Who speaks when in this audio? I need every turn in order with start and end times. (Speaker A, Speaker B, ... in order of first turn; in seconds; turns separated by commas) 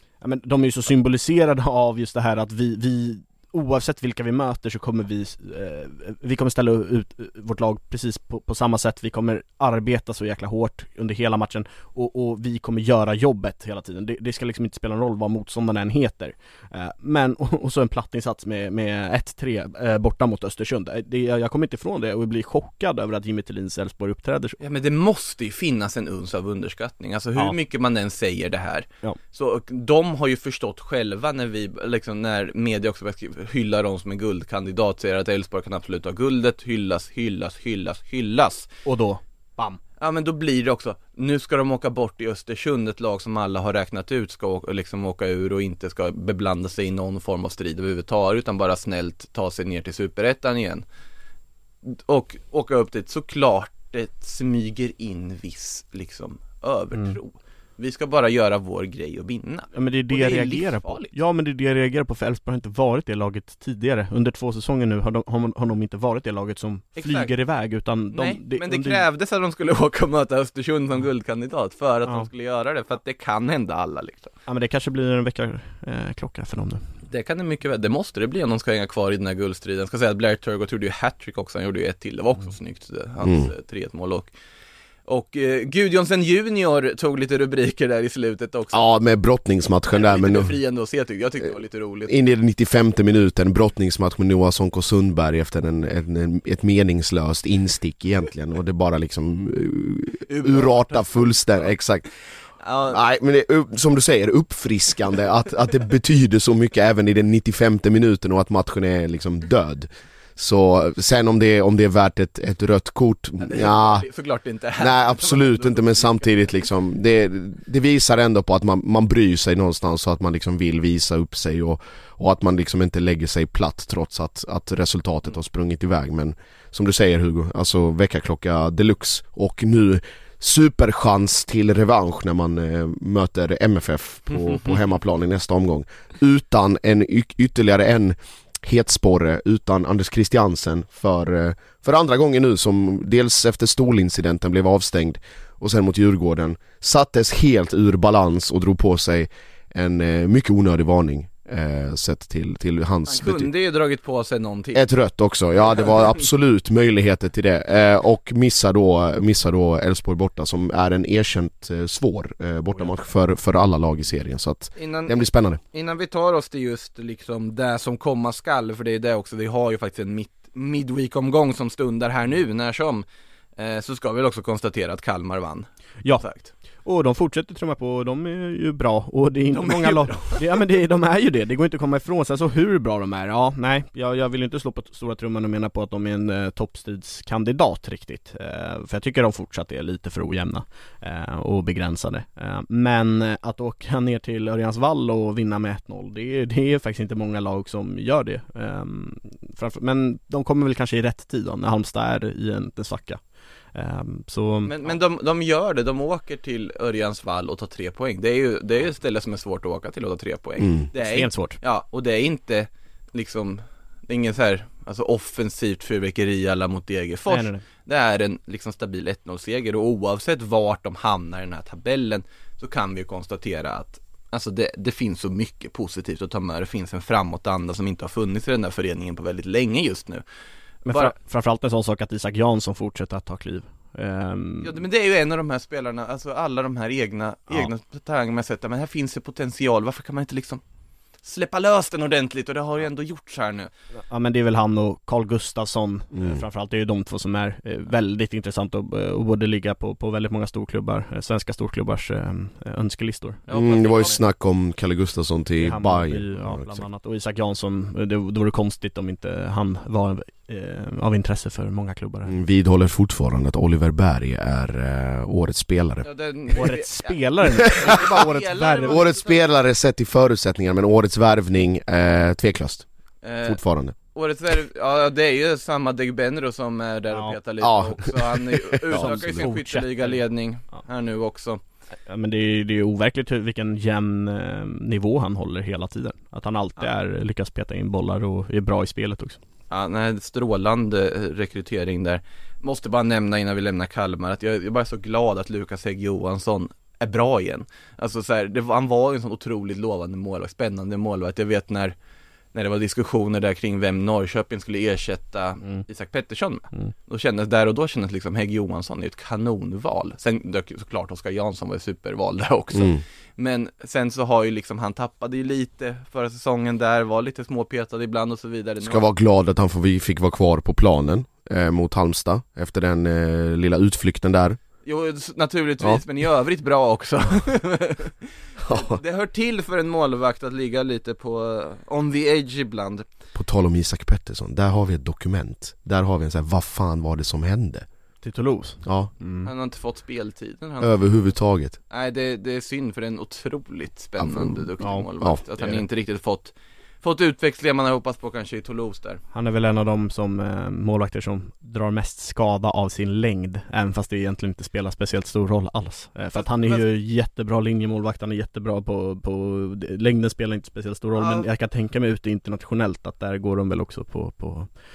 Speaker A: 0.2-24.6, Speaker B: 24.6-38.7, Speaker A: 38.9-39.8, Speaker B: 40.0-50.8, Speaker B: 51.9-61.1, Speaker A: 59.7-69.0, Speaker B: 67.0-67.3, Speaker B: 68.1-74.3, Speaker A: 74.5-76.8, Speaker B: 77.1-84.3, Speaker C: 83.2-83.5, Speaker B: 85.1-88.8, Speaker C: 88.7-90.5, Speaker B: 89.9-92.1, Speaker C: 92.1-102.1, Speaker B: 100.3-101.5, Speaker B: 102.6-103.0, Speaker C: 102.9-114.1, Speaker B: 113.5-116.5, Speaker C: 114.8-153.5, Speaker B: 153.1-154.9, Speaker C: 154.7-165.6, Speaker B: 164.8-165.1, Speaker B: 165.7-173.1, Speaker B: 173.6-176.5, Speaker A: 176.8-203.2, Speaker B: 179.5-180.4, Speaker A: 203.7-204.9, Speaker B: 204.7-230.2, Speaker C: 210.6-210.9, Speaker A: 211.0-211.6, Speaker A: 217.3-217.6, Speaker A: 230.9-234.8, Speaker B: 230.9-231.1, Speaker B: 234.6-240.6, Speaker B: 241.2-243.7, Speaker A: 244.1-253.4, Speaker C: 246.1-246.4, Speaker B: 253.5-254.2, Speaker C: 253.5-256.8, Speaker A: 255.6-262.4, Speaker C: 262.3-266.1, Speaker B: 266.0-269.4, Speaker A: 266.6-269.0, Speaker C: 267.7-268.1, Speaker C: 268.9-272.9, Speaker B: 273.2-273.6, Speaker C: 273.4-274.0, Speaker B: 274.1-281.6, Speaker A: 277.1-277.4, Speaker C: 277.6-279.2, Speaker A: 278.9-280.2, Speaker A: 282.1-289.4, Speaker B: 289.7-301.9, Speaker B: 302.5-319.1, Speaker C: 312.7-313.0, Speaker C: 318.8-324.6, Speaker B: 324.9-328.1, Speaker C: 328.6-329.0, Speaker B: 328.7-333.1, Speaker C: 333.4-337.9, Speaker A: 338.2-339.5, Speaker C: 338.8-339.1, Speaker B: 339.4-341.2, Speaker C: 340.8-341.8, Speaker B: 341.9-349.2, Speaker C: 344.2-344.6, Speaker A: 344.8-345.1, Speaker A: 349.3-364.7, Speaker B: 356.3-356.9, Speaker B: 361.2-361.5